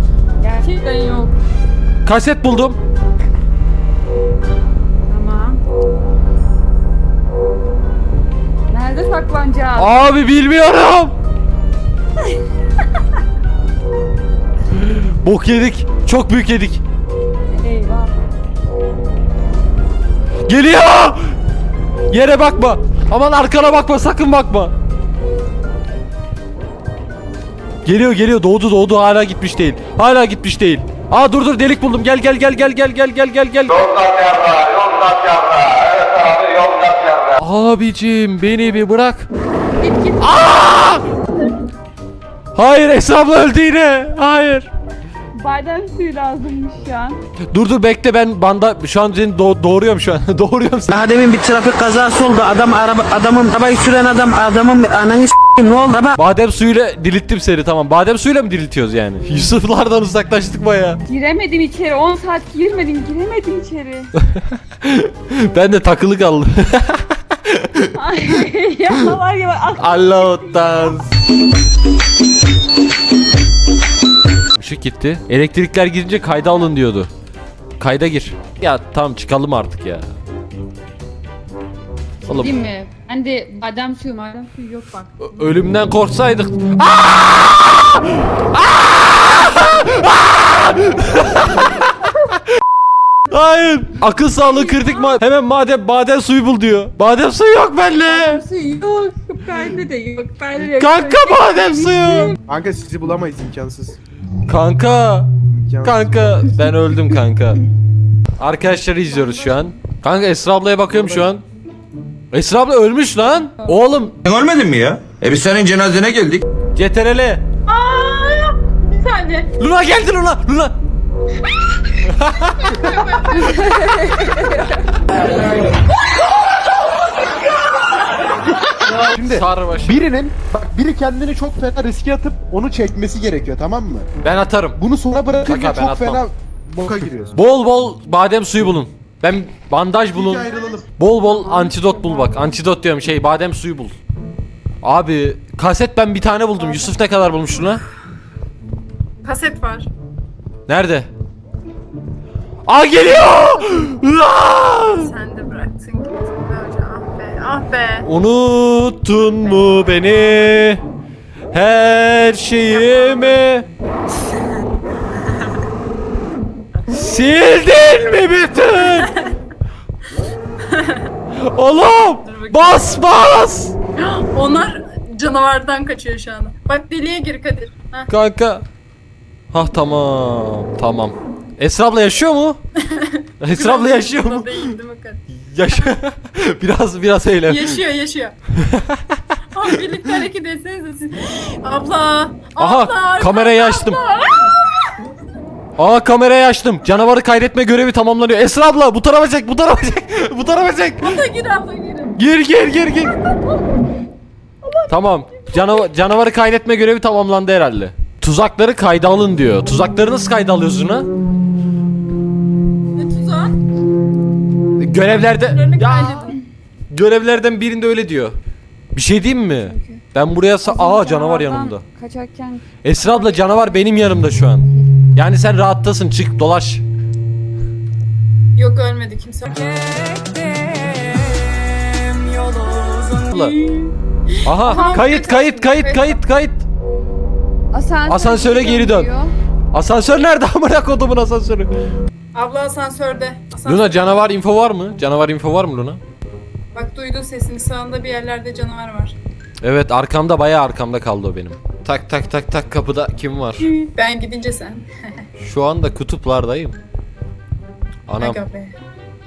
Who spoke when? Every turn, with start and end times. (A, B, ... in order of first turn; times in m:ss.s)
0:00.4-0:01.3 A
0:00.6-0:01.1 B
0:02.0-0:02.8 C
0:05.1-0:05.6 A
0:08.7-0:09.9 A
0:09.8-0:11.1 C
0:14.7-0:16.8 C
0:17.6-0:18.1 A
0:20.5-0:21.3 C
0:22.1-0:24.7 C
0:27.8-0:33.9 C
0:37.4-0:39.3 C
0:39.8-0:40.4 A
0:40.2-0:41.0 C
0:42.6-0:44.7 C
0:45.4-0:47.2 A
0:47.5-0:50.9 C
0:50.9-0:56.2 D
0:56.2-1:01.0 C
1:01.1-1:04.1 A
1:04.3-1:07.9 C
1:07.9-1:11.0 A
1:09.8-1:11.1 C
1:14.6-1:17.1 C
1:17.8-1:20.1 C
1:22.2-1:25.1 A
1:22.3-1:22.5 C
1:25.2-1:31.9 C
1:33.3-1:38.4 C
1:38.0-1:42.4 A
1:40.6-1:42.3 C
1:42.4-1:44.0 E
1:44.5-1:45.3 C
1:45.5-1:46.6 E
1:45.8-1:47.6 C
1:48.4-1:51.4 C
1:50.9-1:51.2 E
1:52.3-1:54.2 C
1:54.2-1:56.4 F
1:56.8-1:57.4 C
1:57.7-1:59.5 B
1:59.6-2:00.8 C
2:02.1-2:02.5 C
2:02.4-2:04.0 B
2:03.5-2:04.6 A
2:08.9-2:14.1 E
2:09.3-2:10.0 C
2:14.2-2:14.8 C
2:14.8-2:17.4 E
2:15.4-2:16.2 C
2:17.3-2:23.9 C
2:20.1-2:20.9 E
2:21.4-2:22.3 A
2:24.8-2:27.8 C
2:29.2-2:29.9 B
2:30.7-2:31.1 C
2:32.7-2:35.1 C
2:34.9-2:38.1 B
2:38.0-2:40.8 C
2:41.5-2:43.7 C
2:42.8-2:43.3 B
2:46.9-2:49.2 C
2:50.7-2:51.1 B
2:51.4-2:53.7 C
2:52.2-2:53.0 B
2:54.0-2:58.1 B
2:58.1-2:58.6 C
2:59.5-3:02.6 C
3:02.8-3:05.9 B
3:03.4-3:04.7 C
3:05.3-3:07.8 C
3:07.5-3:08.3 B
3:08.6-3:09.2 C
3:09.5-3:14.9 B
3:12.6-3:14.0 C
3:15.8-3:21.2 C
3:21.0-3:22.2 B
3:22.2-3:23.2 C
3:24.6-3:25.5 B
3:24.9-3:31.1 C
3:33.0-3:33.6 B
3:34.8-3:36.3 C
3:35.2-3:36.4 B
3:36.0-3:36.3 A
3:36.9-3:38.4 C
3:38.9-3:41.8 C
3:39.5-3:40.0 A
3:40.6-3:44.0 A
3:42.8-3:46.8 C
3:48.6-3:49.6 B
3:49.5-3:52.8 A
3:52.4-3:56.2 B
3:54.4-3:56.6 C
3:54.7-3:55.0 A
3:57.7-3:59.3 A
3:58.1-3:59.1 C
3:59.7-4:01.7 C
4:02.3-4:04.3 B
4:03.6-4:06.0 C
4:06.7-4:09.2 B
4:09.6-4:13.7 C
4:13.6-4:15.2 B
4:15.4-4:16.8 C
4:18.1-4:18.4 C
4:18.2-4:18.7 B